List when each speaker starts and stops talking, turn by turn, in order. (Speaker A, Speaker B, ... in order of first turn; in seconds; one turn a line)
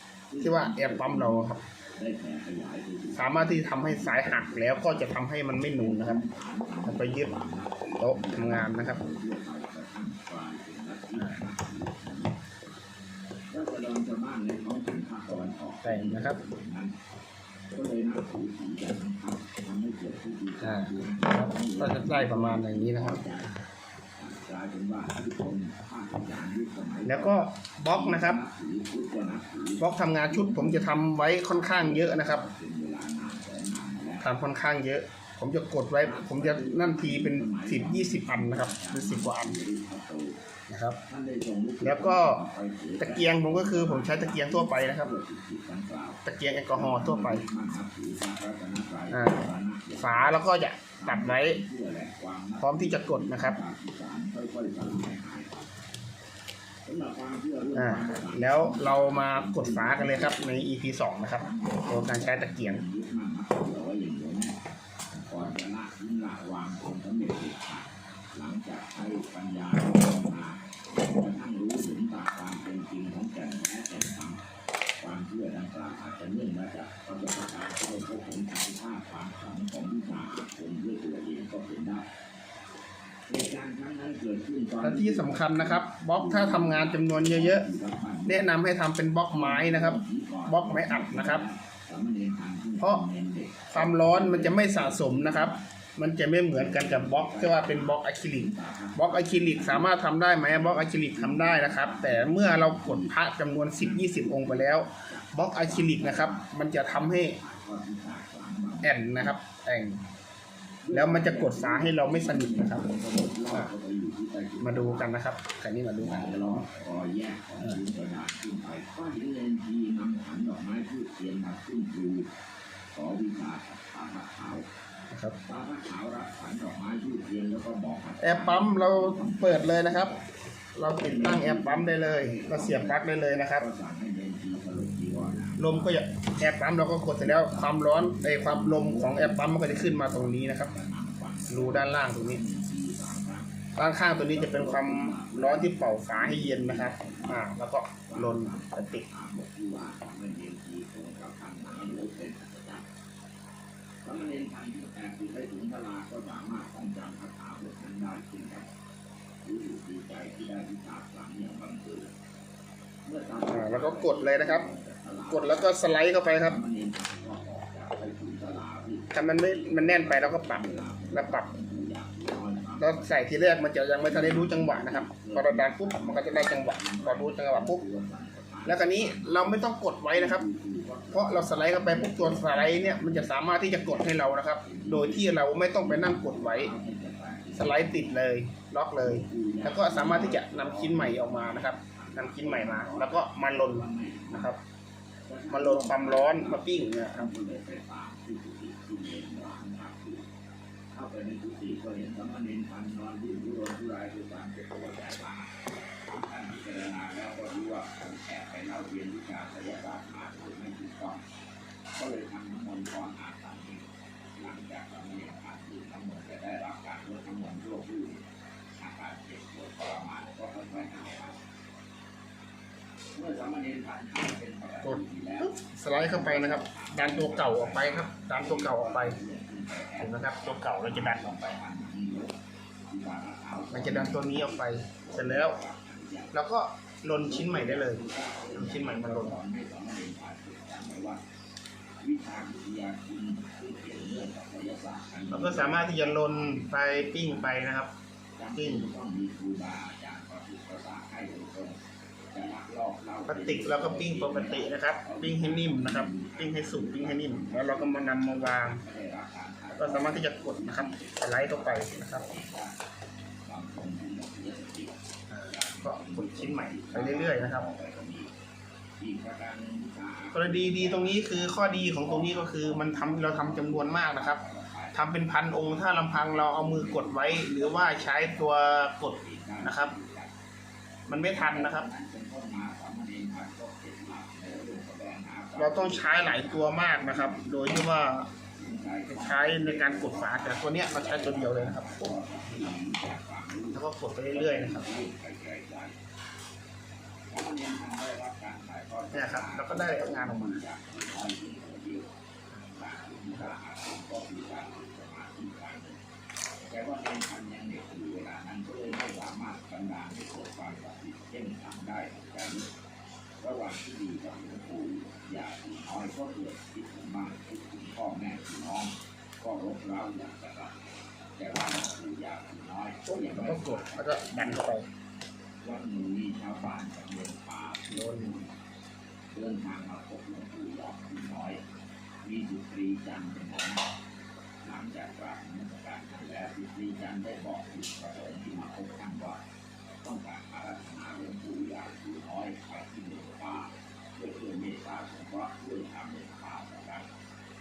Speaker A: 0.3-5.2
Speaker B: 0.4-1.6
Speaker B: 3.1-6.2
Speaker A: 5.8-12.3
Speaker B: 6.8-7.3
Speaker B: 8.0-9.0
Speaker B: 11.1-11.4
Speaker A: 13.5-16.9
Speaker B: 15.8-16.4
Speaker A: 17.7-23.6
Speaker B: 20.6-23.2
Speaker A: 24.2-34.3
Speaker B: 27.0-28.4
Speaker B: 29.8-32.4
Speaker B: 34.2-39.6
Speaker A: 36.0-40.4
Speaker B: 40.7-41.0
Speaker A: 41.1-50.4
Speaker B: 41.8-42.4
Speaker B: 43.0-45.1
Speaker B: 46.2-47.4
Speaker B: 49.1-51.6
Speaker A: 51.0-55.6
Speaker B: 52.6-53.6
Speaker A: 56.8-60.6
Speaker B: 57.7-62.8
Speaker A: 61.3-64.6
Speaker A: 65.3-74.4
Speaker A: 75.0-82.0
Speaker A: 83.3-88.5
Speaker B: 84.8-87.7
Speaker B: 88.2-91.4
Speaker A: 89.3-95.6
Speaker B: 92.8-93.0
Speaker B: 93.7-107.4
Speaker A: 96.5-99.9
Speaker A: 100.4-103.2
Speaker A: 103.7-109.4
Speaker B: 108.8-110.0
Speaker A: 110.8-115.1
Speaker B: 110.9-112.9
Speaker B: 114.6-116.7
Speaker A: 116.0-122.3
Speaker A: 122.9-124.7
Speaker B: 125.1-125.3
Speaker A: 125.4-130.2
Speaker B: 128.2-130.1
Speaker B: 130.8-133.7
Speaker A: 131.0-136.0
Speaker B: 135.6-140.7
Speaker A: 137.2-143.5
Speaker B: 141.5-142.4
Speaker B: 143.8-149.0
Speaker A: 144.3-147.5
Speaker A: 148.0-152.8
Speaker A: 154.0-158.7
Speaker A: 159.4-162.1
Speaker A: 163.1-173.2
Speaker B: 163.5-164.7
Speaker B: 165.3-166.6
Speaker B: 169.1-171.5
Speaker B: 172.8-177.8
Speaker A: 174.0-188.2
Speaker B: 178.6-180.4
Speaker B: 181.1-186.7
Speaker B: 187.6-194.6
Speaker A: 189.0-194.5
Speaker A: 195.3-200.2
Speaker B: 195.5-197.3
Speaker A: 200.9-205.5
Speaker A: 206.1-211.2
Speaker A: 211.9-218.2
Speaker A: 218.8-221.4
Speaker A: 223.1-232.3
Speaker B: 224.8-229.2
Speaker B: 230.0-231.3
Speaker A: 232.9-236.4
Speaker B: 233.7-235.6
Speaker B: 236.3-238.0
Speaker A: 237.2-241.2
Speaker B: 238.5-239.4
Speaker A: 242.0-247.6
Speaker B: 245.3-247.9
Speaker A: 248.4-251.8
Speaker B: 248.5-248.9
Speaker A: 252.3-262.8
Speaker B: 253.3-258.8
Speaker B: 259.7-262.2
Speaker A: 263.4-268.3
Speaker B: 265.3-267.7
Speaker A: 269.0-280.3
Speaker B: 270.3-274.4
Speaker B: 274.9-279.9
Speaker B: 281.1-281.9
Speaker A: 281.1-287.9
Speaker B: 285.6-288.3
Speaker A: 288.5-295.9
Speaker B: 289.1-292.7
Speaker B: 293.7-294.9
Speaker A: 297.3-302.1
Speaker B: 299.1-300.6
Speaker A: 302.6-306.0
Speaker A: 306.6-312.7
Speaker A: 313.4-320.8
Speaker A: 321.4-324.7
Speaker B: 323.1-324.9
Speaker A: 325.6-328.6
Speaker B: 327.9-328.3
Speaker A: 329.3-331.6
Speaker A: 332.2-333.8
Speaker A: 334.6-339.4
Speaker A: 340.0-347.1